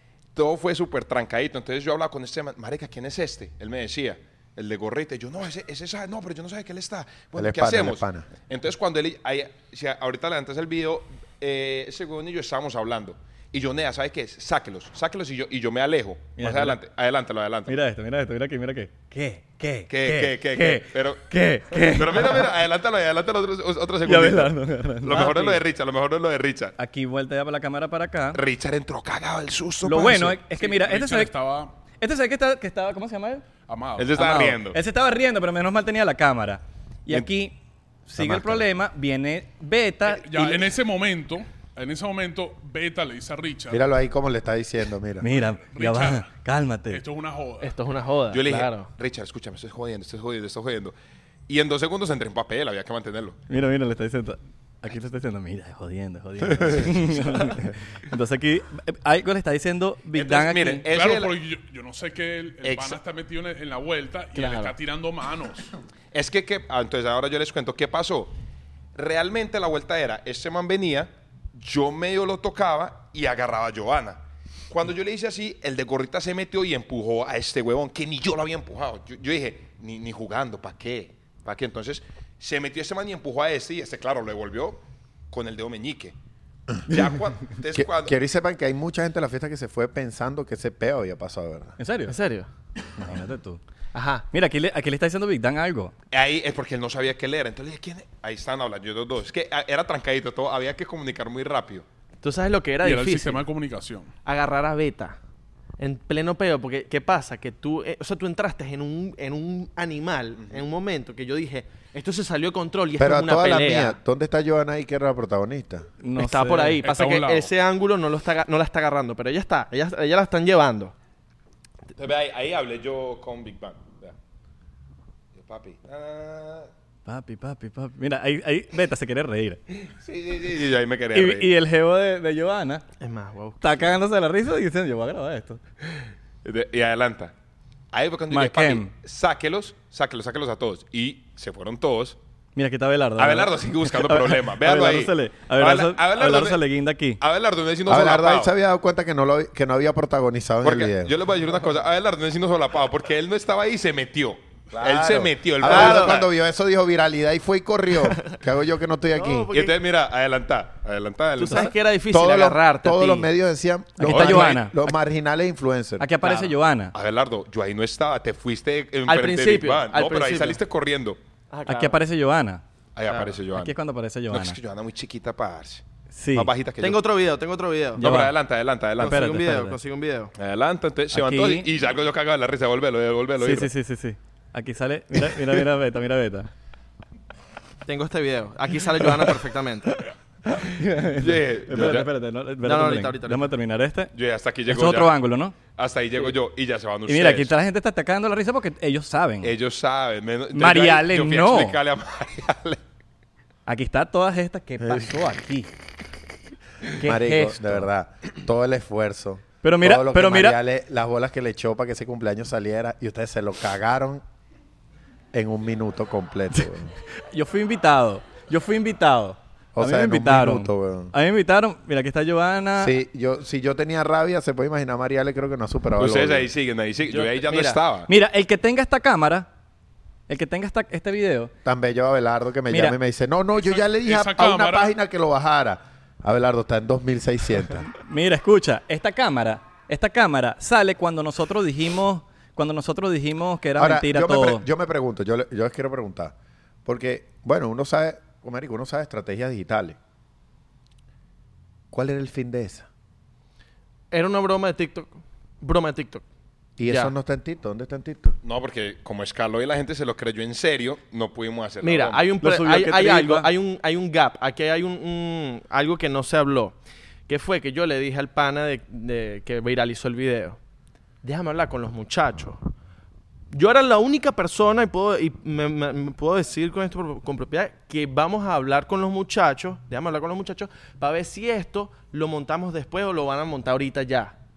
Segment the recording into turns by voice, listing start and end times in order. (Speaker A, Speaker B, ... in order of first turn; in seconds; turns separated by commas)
Speaker A: 0.3-17.8, Speaker B: 7.3-8.3, Speaker C: 16.4-16.8, Speaker C: 17.7-22.5, Speaker A: 19.9-26.8, Speaker C: 24.1-25.6, Speaker C: 26.8-28.4, Speaker A: 28.3-30.4, Speaker C: 29.8-31.3, Speaker D: 30.4-31.8, Speaker C: 32.0-33.5, Speaker D: 33.7-34.3, Speaker A: 34.0-34.8, Speaker C: 34.1-40.7, Speaker B: 38.2-38.7, Speaker D: 40.1-43.8, Speaker B: 43.7-45.3, Speaker C: 45.2-47.0, Speaker D: 45.6-46.3, Speaker D: 46.9-47.8, Speaker E: 47.6-48.9, Speaker A: 48.3-50.9, Speaker A: 51.5-53.4, Speaker C: 53.5-60.9, Speaker A: 60.1-61.4, Speaker D: 60.9-65.7, Speaker A: 62.6-63.0, Speaker E: 64.4-64.8, Speaker A: 66.1-68.3, Speaker A: 69.0-86.2, Speaker A: 86.8-88.2, Speaker B: 87.7-91.8, Speaker C: 91.8-92.2, Speaker E: 92.1-92.5, Speaker C: 93.0-93.6, Speaker E: 93.9-94.3, Speaker C: 94.3-95.9, Speaker A: 96.1-101.8, Speaker E: 102.2-103.5, Speaker D: 102.8-104.1, Speaker E: 104.2-105.2, Speaker E: 105.8-114.0, Speaker B: 113.0-115.9, Speaker C: 116.0-116.9, Speaker E: 116.2-120.9, Speaker D: 116.8-117.5, Speaker A: 122.0-124.2, Speaker A: 125.3-126.7, Speaker C: 127.1-129.6, Speaker A: 130.0-131.5, Speaker C: 131.1-132.8, Speaker E: 133.0-133.8, Speaker C: 133.6-135.6, Speaker A: 136.4-137.3, Speaker A: 137.9-142.2, Speaker C: 138.3-138.9, Speaker C: 142.6-147.2, Speaker A: 143.2-146.6, Speaker A: 147.2-148.5, Speaker B: 147.9-151.2, Speaker A: 150.6-156.3, Speaker B: 154.7-159.5, Speaker E: 155.6-156.2, Speaker E: 159.1-159.8, Speaker A: 159.5-161.7, Speaker E: 161.4-163.3, Speaker C: 161.4-161.7, Speaker B: 162.1-166.1, Speaker C: 164.0-164.8, Speaker A: 164.0-164.6, Speaker C: 166.0-166.9, Speaker E: 166.2-166.5, Speaker A: 166.9-171.2, Speaker E: 169.1-170.6, Speaker E: 171.5-172.0, Speaker C: 171.7-172.6, Speaker A: 173.0-173.8, Speaker E: 173.1-173.3, Speaker C: 173.5-174.6, Speaker A: 174.3-177.0, Speaker C: 176.1-176.5, Speaker E: 176.8-178.0, Speaker C: 178.0-178.3, Speaker A: 178.0-179.4, Speaker E: 179.0-180.3, Speaker C: 179.0-179.8, Speaker A: 180.4-183.7, Speaker C: 181.1-181.7, Speaker C: 183.4-186.5, Speaker E: 187.9-190.0, Speaker C: 190.5-194.1, Speaker A: 191.2-192.1, Speaker E: 192.6-193.5, Speaker A: 194.1-195.1, Speaker C: 194.7-195.6, Speaker A: 195.8-197.5, Speaker C: 197.1-199.5, Speaker A: 199.4-202.8, Speaker C: 200.5-201.8, Speaker C: 203.7-205.7, Speaker B: 204.8-205.1, Speaker C: 206.9-207.9, Speaker B: 207.0-214.2, Speaker C: 209.6-210.6, Speaker B: 215.3-216.9, Speaker C: 217.2-223.0, Speaker B: 219.8-221.1, Speaker B: 222.8-226.5, Speaker A: 226.0-228.1, Speaker E: 227.1-227.8, Speaker C: 228.1-229.5, Speaker C: 230.3-231.5, Speaker B: 231.7-237.9, Speaker C: 232.7-233.0, Speaker D: 233.7-234.9, Speaker C: 238.0-244.7, Speaker B: 243.8-246.3, Speaker B: 246.8-250.0, Speaker B: 251.9-252.9, Speaker E: 254.1-256.2, Speaker B: 256.8-258.4, Speaker E: 256.9-257.1, Speaker A: 258.4-262.3, Speaker E: 261.8-270.6, Speaker C: 262.4-263.5, Speaker E: 271.2-272.6, Speaker E: 273.5-284.4